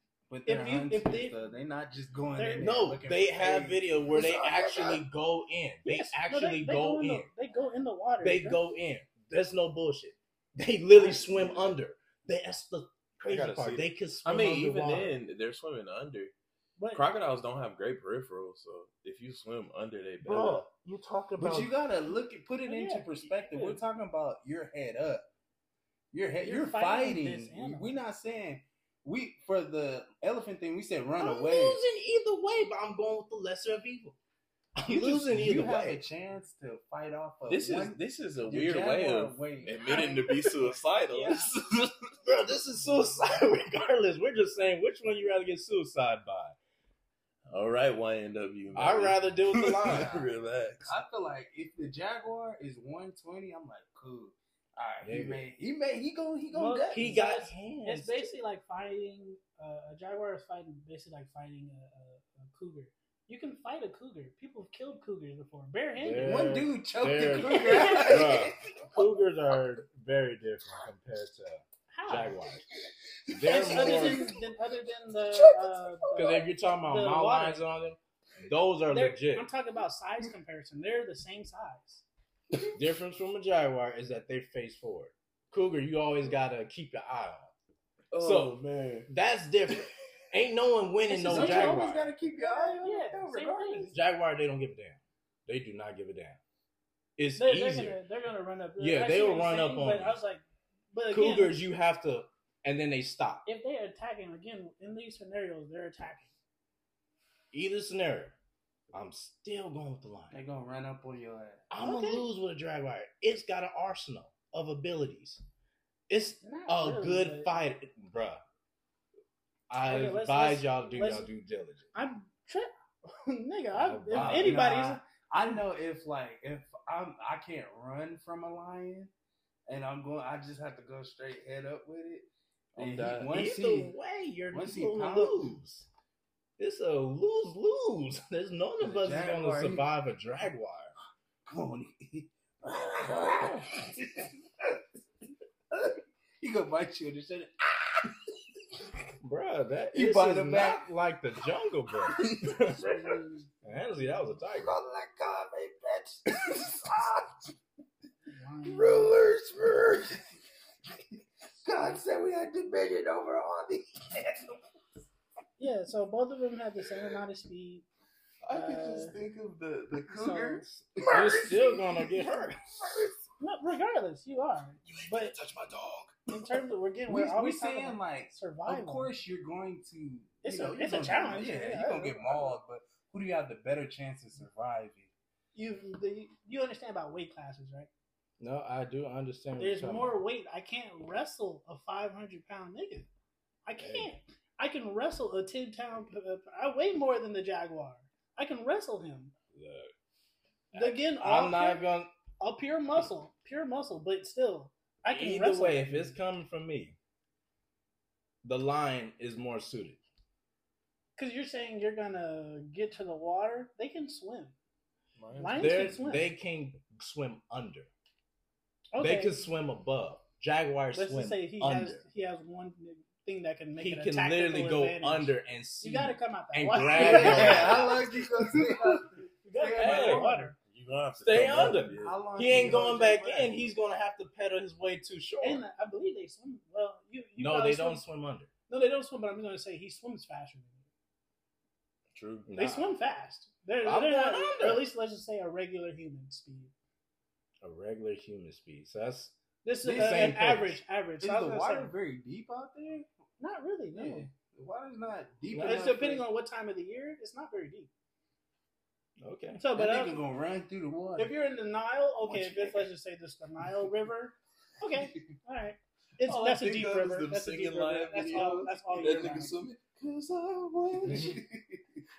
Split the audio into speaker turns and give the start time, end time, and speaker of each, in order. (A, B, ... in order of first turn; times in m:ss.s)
0:00.3-0:05.0 A
0:00.4-0:01.5 B
0:02.4-0:02.9 B
0:02.6-0:07.3 C
0:05.8-0:08.6 B
0:08.2-0:15.2 C
0:11.0-0:11.7 A
0:13.2-0:16.3 D
0:16.8-0:17.1 B
0:16.9-0:20.6 D
0:20.2-0:21.7 C
0:21.4-0:25.2 A
0:22.6-0:23.8 B
0:26.1-0:31.8 A
0:26.4-0:28.0 B
0:31.2-0:34.2 C
0:34.8-0:36.0 C
0:34.9-0:40.2 A
0:37.5-0:42.1 D
0:39.9-0:41.5 B
0:42.2-0:46.6 C
0:47.5-0:51.0 D
0:48.7-0:50.1 C
0:49.8-0:50.3 A
0:50.8-0:57.2 A
0:55.0-0:55.4 C
0:56.5-1:06.5 B
0:56.9-0:58.4 C
1:06.0-1:12.6 C
1:06.2-1:08.9 A
1:07.7-1:08.0 B
1:11.9-1:12.4 B
1:13.3-1:14.3 C
1:13.4-1:14.4 A
1:13.4-1:17.7 B
1:16.1-1:19.5 C
1:18.9-1:22.0 B
1:22.6-1:27.5 C
1:28.1-1:29.1 D
1:28.2-1:28.5 C
1:29.1-1:32.0 C
1:31.1-1:34.0 A
1:31.3-1:34.0 B
1:33.9-1:36.4 C
1:37.2-1:38.0 C
1:37.4-1:41.6 B
1:38.8-1:40.2 C
1:41.1-1:43.4 C
1:43.4-1:46.3 B
1:47.5-1:48.4 C
1:48.9-1:50.4 C
1:50.3-1:51.6 A
1:51.7-1:55.4 C
1:51.8-1:52.3 B
1:56.1-1:58.4 C
1:56.4-1:57.6 B
1:59.7-2:01.9 C
1:59.8-2:01.3 B
2:01.9-2:05.0 B
2:03.7-2:04.6 C
2:04.1-2:09.1 A
2:09.7-2:13.9 A
2:12.7-2:13.3 D
2:13.3-2:15.9 C
2:14.5-2:15.6 A
2:16.6-2:20.9 C
2:18.8-2:19.9 A
2:21.4-2:24.8 A
2:23.4-2:23.6 C
2:25.7-2:28.2 A
2:29.2-2:32.9 C
2:29.9-2:30.9 A
2:32.1-2:33.2 A
2:32.8-2:33.4 B
2:33.6-2:34.8 C
2:34.5-2:37.5 A
2:38.3-2:39.2 B
2:38.7-2:40.3 A
2:41.6-2:44.6 A
2:45.6-2:47.8 B
2:48.4-2:52.3 D
2:48.5-2:49.2 B
2:50.1-2:50.6 B
2:50.6-2:52.8 C
2:51.0-2:51.7 A
2:52.8-2:53.1 D
2:53.4-2:55.4 B
2:54.8-2:56.2 D
2:56.3-2:59.1 B
2:57.1-3:05.1 A
3:00.4-3:02.6 B
3:05.5-3:07.9 B
3:08.4-3:10.2 C
3:09.6-3:13.1 B
3:13.6-3:19.3 B
3:13.8-3:14.1 C
3:19.5-3:19.9 C
3:20.7-3:22.1 C
3:20.7-3:21.8 B
3:22.4-3:26.2 B
3:25.1-3:27.0 C
3:28.4-3:30.0 C
3:31.2-3:34.5 B
3:35.2-3:36.0 D
3:35.4-3:36.3 B
3:35.5-3:37.9 C
3:38.9-3:39.4 B
3:39.0-3:42.0 C
3:40.9-3:48.0 B
3:43.8-3:48.0 C
3:46.9-3:50.4 A
3:47.2-3:47.8 D
3:49.4-3:50.6 B
3:49.8-3:50.4 C
3:50.6-3:52.7 D
3:51.2-3:55.6 C
3:51.4-3:53.6 A
3:55.4-3:58.0 B
3:57.4-3:58.5 C
3:58.7-4:00.8 B
4:02.1-4:02.5 D
4:02.5-4:02.9 C
4:02.6-4:06.7 B
4:03.8-4:04.8 C
4:07.6-4:09.3 C
4:09.6-4:11.9 B
4:09.8-4:10.4 A
4:09.9-4:10.8 C
4:11.2-4:13.1 A
4:13.4-4:14.3 B
4:13.9-4:16.2 A
4:15.5-4:17.9 B
4:19.2-4:19.6 C
4:19.6-4:20.2 B
4:19.7-4:21.3 A
4:21.2-4:29.5 B
4:22.3-4:22.8 A
4:26.2-4:31.4 D
4:28.9-4:29.4 A
4:30.9-4:32.0 A
4:31.1-4:31.4 C